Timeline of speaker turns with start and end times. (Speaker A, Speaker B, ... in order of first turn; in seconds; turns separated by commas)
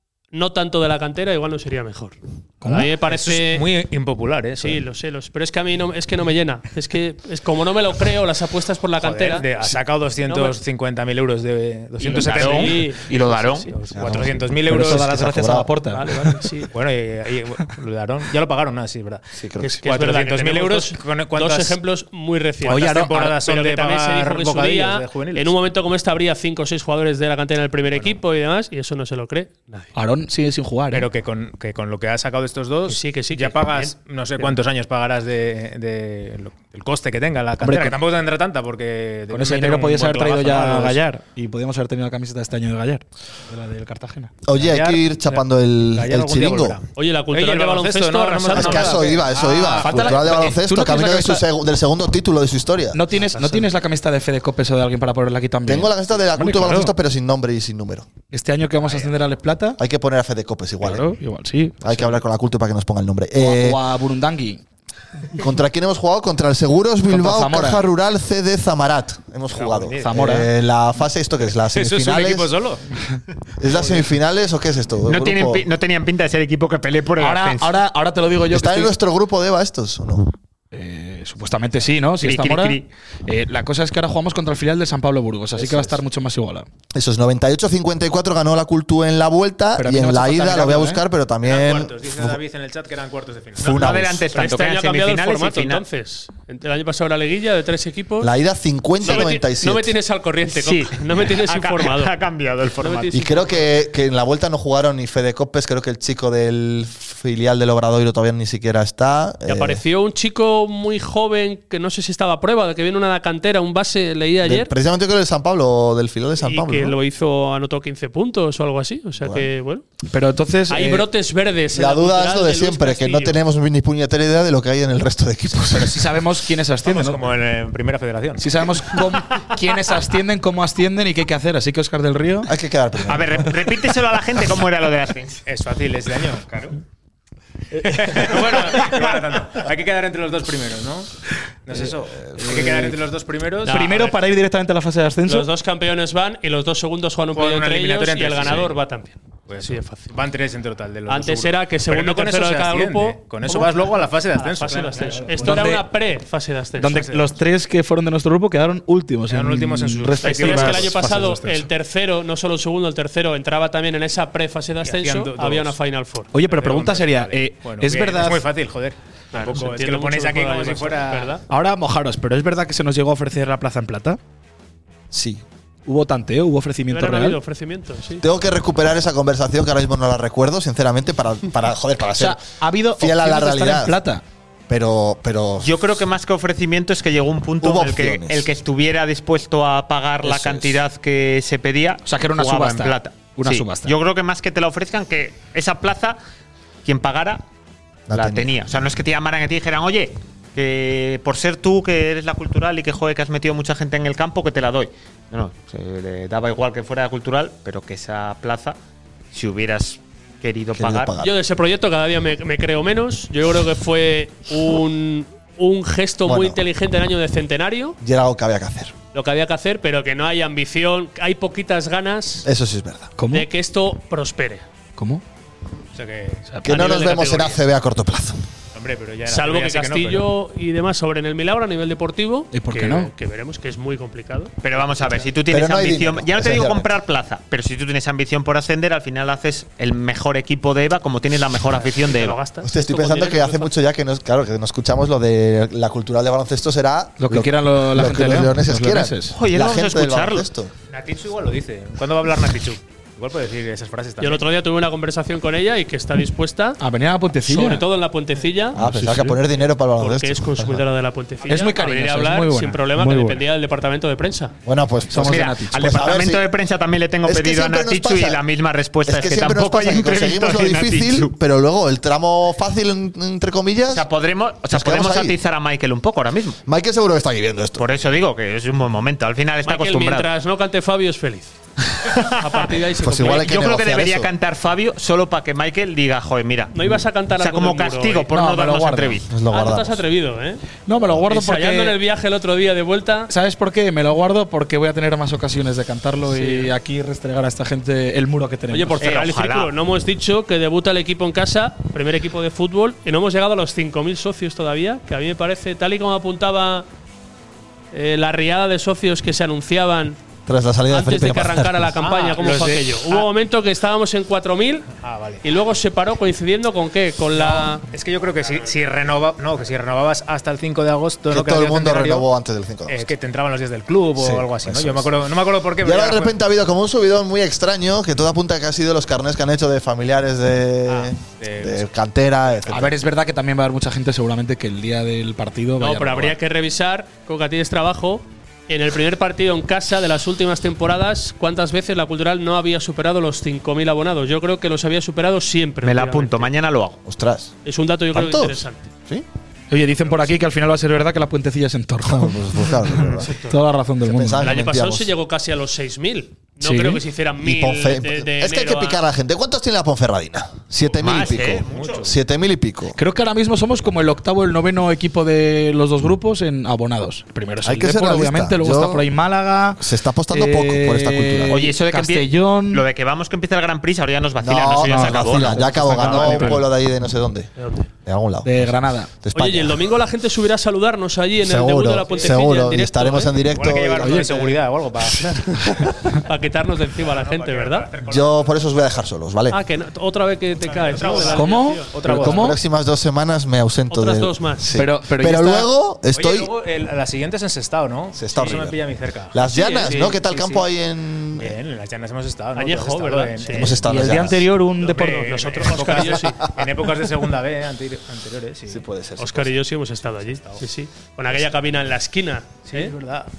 Speaker A: 0.3-3.7, Speaker B: 2.6-2.9, Speaker C: 2.8-4.8, Speaker A: 4.6-9.5, Speaker C: 9.0-12.9, Speaker A: 10.2-10.6, Speaker B: 12.0-12.6, Speaker A: 12.1-14.2, Speaker D: 12.2-13.7, Speaker E: 13.9-15.7, Speaker C: 14.0-15.4, Speaker B: 14.6-16.4, Speaker A: 15.9-16.7, Speaker C: 16.7-19.2, Speaker E: 19.4-19.8, Speaker A: 19.6-29.9, Speaker C: 19.8-21.8, Speaker C: 22.7-25.5, Speaker B: 22.7-23.3, Speaker C: 27.9-28.2, Speaker B: 29.9-31.1, Speaker C: 30.9-41.0, Speaker A: 32.9-34.6, Speaker B: 37.6-38.0, Speaker B: 39.3-44.4, Speaker E: 44.4-46.8, Speaker C: 44.5-50.5, Speaker A: 47.0-49.1, Speaker E: 48.5-53.0, Speaker B: 49.8-51.5, Speaker B: 52.9-56.9, Speaker E: 55.6-58.1, Speaker B: 58.3-59.8, Speaker C: 58.8-59.2, Speaker E: 59.8-61.1, Speaker B: 60.8-62.2, Speaker E: 61.8-63.8, Speaker B: 63.4-64.6, Speaker E: 65.3-72.5, Speaker B: 67.1-67.8, Speaker C: 69.5-70.2, Speaker B: 70.0-70.5, Speaker C: 71.6-72.9, Speaker E: 73.6-75.6, Speaker C: 73.6-74.0, Speaker D: 75.1-77.7, Speaker B: 77.2-78.9, Speaker E: 78.5-80.3, Speaker B: 80.7-86.7, Speaker D: 82.2-82.9, Speaker E: 85.6-86.0, Speaker E: 86.9-92.4, Speaker B: 89.8-91.0, Speaker C: 91.4-93.9, Speaker E: 93.6-94.2, Speaker D: 93.7-95.8, Speaker A: 94.3-98.3, Speaker E: 98.2-100.0, Speaker A: 99.0-102.1, Speaker D: 100.5-103.1, Speaker A: 102.8-103.7, Speaker E: 103.1-109.8, Speaker A: 109.5-114.7, Speaker E: 114.4-117.0, Speaker A: 116.4-119.8, Speaker E: 119.2-119.5, Speaker B: 120.1-121.1, Speaker A: 120.7-123.4, Speaker E: 121.7-126.1, Speaker B: 125.7-127.2, Speaker C: 126.8-128.9, Speaker B: 128.4-132.5, Speaker E: 132.4-133.5, Speaker D: 133.1-135.4, Speaker C: 135.4-136.7, Speaker C: 137.8-141.1, Speaker C: 141.7-144.1, Speaker B: 142.4-143.0, Speaker A: 143.6-144.2, Speaker B: 143.7-145.5, Speaker A: 145.3-150.1, Speaker C: 147.3-148.8, Speaker C: 149.5-155.8, Speaker A: 151.1-157.0, Speaker B: 155.4-155.8, Speaker B: 156.8-161.7, Speaker C: 156.9-157.3, Speaker C: 159.2-161.3, Speaker A: 160.2-166.3, Speaker C: 164.8-165.8, Speaker B: 166.3-168.4, Speaker C: 166.4-171.4, Speaker A: 169.3-171.4, Speaker B: 171.5-174.2, Speaker E: 175.1-175.4, Speaker B: 175.8-177.4, Speaker A: 176.9-178.2, Speaker E: 178.2-182.4, Speaker B: 182.2-184.2, Speaker E: 183.0-184.0, Speaker E: 184.7-185.7, Speaker D: 185.6-196.2, Speaker E: 187.6-188.5, Speaker B: 190.3-190.7, Speaker B: 192.1-193.9, Speaker D: 196.8-197.4, Speaker E: 198.1-198.5, Speaker D: 198.1-208.8, Speaker D: 209.3-211.1, Speaker E: 210.7-211.3, Speaker A: 211.2-218.0, Speaker E: 216.2-216.6, Speaker E: 218.0-218.9, Speaker A: 219.1-222.4, Speaker E: 222.4-223.1, Speaker B: 223.2-223.5, Speaker A: 223.3-224.6, Speaker B: 225.0-225.2, Speaker C: 225.9-227.5, Speaker E: 226.6-228.4, Speaker A: 226.7-227.4, Speaker C: 228.7-230.3, Speaker A: 229.3-234.5, Speaker B: 232.5-233.1, Speaker D: 234.6-242.4, Speaker E: 235.5-236.9, Speaker A: 241.8-243.7, Speaker E: 242.6-250.7, Speaker B: 247.2-249.3, Speaker D: 249.3-250.5, Speaker C: 250.9-254.4, Speaker A: 254.2-256.8, Speaker B: 256.8-257.9, Speaker A: 257.4-258.8, Speaker B: 258.8-259.4, Speaker E: 258.8-260.8, Speaker A: 260.0-264.5, Speaker B: 261.5-263.4, Speaker E: 264.6-266.4, Speaker B: 265.1-265.7, Speaker D: 265.2-271.3, Speaker E: 267.2-268.4, Speaker E: 269.1-274.1, Speaker D: 273.9-276.6, Speaker E: 274.7-275.4, Speaker E: 276.6-277.9, Speaker D: 277.8-280.3, Speaker A: 279.6-283.6, Speaker D: 282.0-282.7, Speaker E: 283.0-284.3, Speaker D: 283.4-286.7, Speaker A: 286.7-288.2, Speaker D: 287.4-289.2, Speaker B: 288.3-289.2, Speaker E: 289.3-290.0, Speaker A: 289.5-290.6, Speaker B: 290.9-292.0, Speaker A: 291.3-293.3, Speaker B: 293.3-299.1, Speaker A: 296.3-296.7, Speaker A: 298.7-306.9, Speaker D: 299.0-299.7, Speaker A: 307.9-310.2, Speaker E: 310.4-311.9, Speaker A: 310.9-314.9, Speaker C: 311.9-313.3, Speaker C: 315.0-315.4, Speaker A: 315.4-317.8, Speaker C: 317.3-322.3, Speaker E: 321.3-323.1, Speaker C: 322.9-326.4, Speaker E: 324.2-325.1, Speaker E: 325.8-333.0, Speaker C: 330.9-331.9, Speaker B: 332.7-336.4, Speaker A: 335.8-346.5, Speaker D: 345.8-347.0, Speaker E: 347.0-347.6, Speaker A: 347.6-348.9, Speaker E: 348.1-349.2, Speaker B: 349.7-352.9, Speaker E: 352.1-353.3, Speaker B: 353.4-354.4, Speaker E: 354.0-355.1, Speaker A: 354.4-359.0, Speaker B: 356.6-357.0, Speaker E: 357.4-363.0, Speaker D: 361.0-362.1, Speaker C: 361.6-362.1, Speaker B: 362.9-369.8, Speaker E: 367.6-369.0, Speaker E: 369.8-371.6, Speaker B: 370.3-372.8, Speaker D: 371.5-376.6, Speaker E: 374.4-377.5, Speaker B: 374.8-376.6, Speaker A: 377.6-377.9, Speaker E: 378.0-379.8, Speaker B: 378.4-379.1, Speaker A: 379.3-383.3, Speaker E: 381.4-384.5, Speaker C: 382.1-382.4, Speaker C: 383.4-385.4, Speaker B: 384.0-384.5, Speaker E: 385.2-385.9, Speaker A: 386.2-387.9, Speaker C: 387.0-388.8, Speaker E: 388.1-389.6, Speaker A: 389.5-391.9, Speaker C: 390.6-392.5, Speaker B: 391.3-392.6, Speaker E: 392.1-396.5, Speaker A: 393.9-394.6, Speaker B: 394.8-395.7, Speaker C: 396.1-400.6, Speaker E: 398.1-401.6, Speaker A: 399.4-400.2, Speaker C: 401.4-404.1, Speaker A: 402.5-403.8, Speaker E: 403.5-404.5, Speaker B: 403.9-405.3, Speaker C: 404.8-408.8, Speaker A: 405.0-406.4, Speaker E: 408.7-409.5, Speaker A: 409.2-412.9, Speaker C: 410.2-410.6, Speaker C: 412.6-413.3